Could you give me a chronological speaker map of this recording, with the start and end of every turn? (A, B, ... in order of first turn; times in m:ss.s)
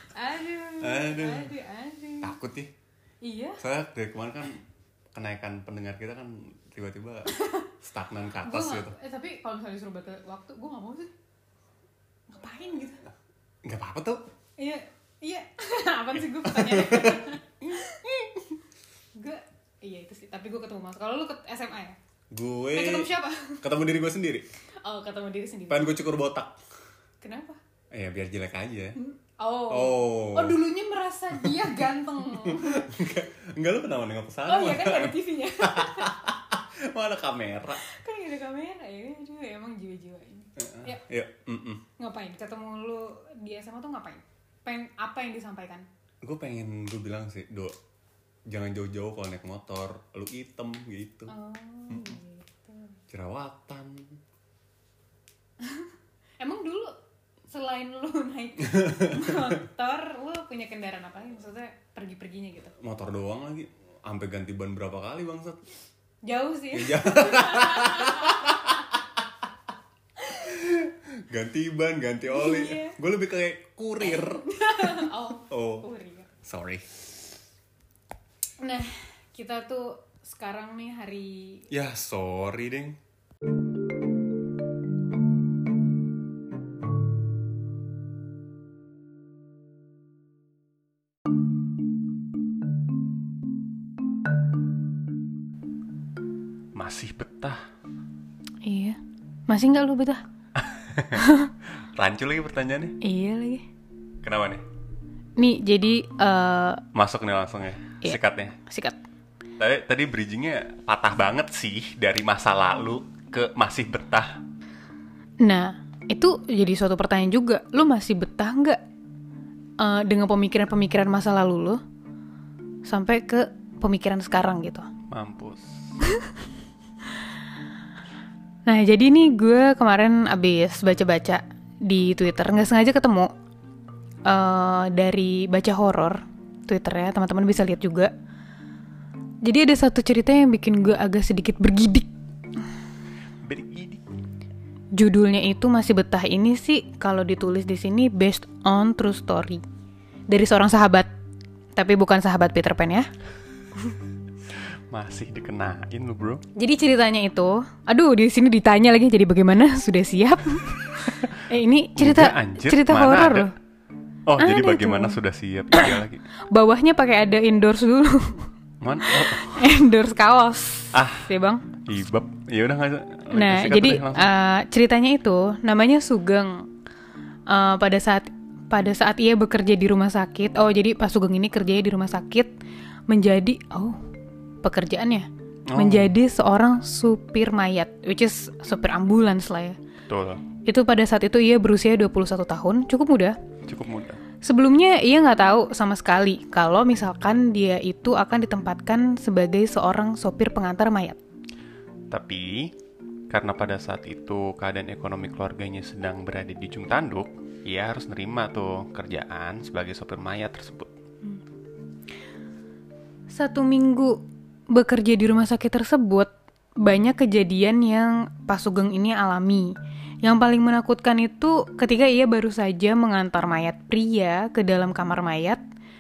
0:00.1-0:02.4 A
0:00.8-0:01.5 B
0:02.2-0:02.7 B
0:03.2-0:03.6 A
0:03.6-0:09.0 B
0:07.3-0:07.7 A
0:08.4-0:11.1 A
0:12.3-0:13.0 A
0:13.6-0:14.2 B
0:14.6-0:18.0 A
0:16.4-0:18.6 B
0:19.2-0:22.0 A
0:22.3-0:24.5 B
0:22.7-0:23.6 A
0:24.8-0:26.0 A
0:25.7-0:26.6 B
0:27.2-0:27.6 A
0:27.9-0:29.0 B
0:29.0-0:32.9 A
0:29.7-0:30.6 B
0:31.3-0:31.6 B
0:32.3-0:37.8 B
0:34.5-0:36.2 A
0:37.8-0:41.0 A
0:40.6-0:41.8 B
0:42.0-0:45.9 A
0:46.2-0:47.8 B
0:48.5-0:51.3 B
0:51.3-0:53.0 A
0:51.9-0:52.2 B
0:53.1-0:54.2 B
0:55.6-0:57.0 A
0:57.5-1:02.8 A
0:58.6-0:59.6 B
1:02.8-1:05.6 B
1:06.2-1:08.8 A
1:06.7-1:09.0 B
1:10.2-1:10.5 A
1:10.3-1:15.9 B
1:12.3-1:13.0 A
1:14.1-1:16.3 A
1:16.4-1:16.9 B
1:18.6-1:21.7 A
1:21.7-1:23.0 B
1:36.8-1:37.6 B
1:38.6-1:40.2 A
1:40.6-1:41.3 B
1:41.1-1:41.5 A
1:42.0-1:43.0 B
1:43.0-1:43.6 A
1:44.2-1:44.6 B
1:45.4-1:46.8 A
1:46.9-1:48.6 B
1:48.0-1:49.0 A
1:49.6-1:54.4 B
1:55.4-1:58.8 A
1:59.8-2:01.8 A
2:02.8-2:04.9 A
2:05.1-2:05.8 B
2:08.7-2:13.3 A
2:14.3-2:18.1 A
2:19.4-2:22.1 A
2:23.4-2:24.0 B
2:24.9-2:29.6 A
2:30.3-2:31.1 A
2:31.8-2:33.1 A
2:34.9-2:36.4 B
2:36.6-2:43.5 A
2:42.0-2:43.5 B
2:44.3-2:46.2 B
2:44.4-2:45.2 A
2:45.7-2:46.0 A
2:46.5-2:48.5 A
2:48.8-2:49.7 B
2:49.0-2:51.7 A
2:50.9-2:51.3 B
2:51.8-2:54.3 B
2:53.3-2:56.7 A
2:57.5-3:02.5 A
3:03.1-3:04.0 A
3:04.6-3:09.8 A
3:05.7-3:06.1 B
3:10.1-3:10.4 B
3:10.6-3:13.4 A
3:13.7-3:14.2 B
3:14.4-3:21.2 A
3:22.1-3:22.8 B
3:23.3-3:30.9 B
3:33.3-3:45.6 A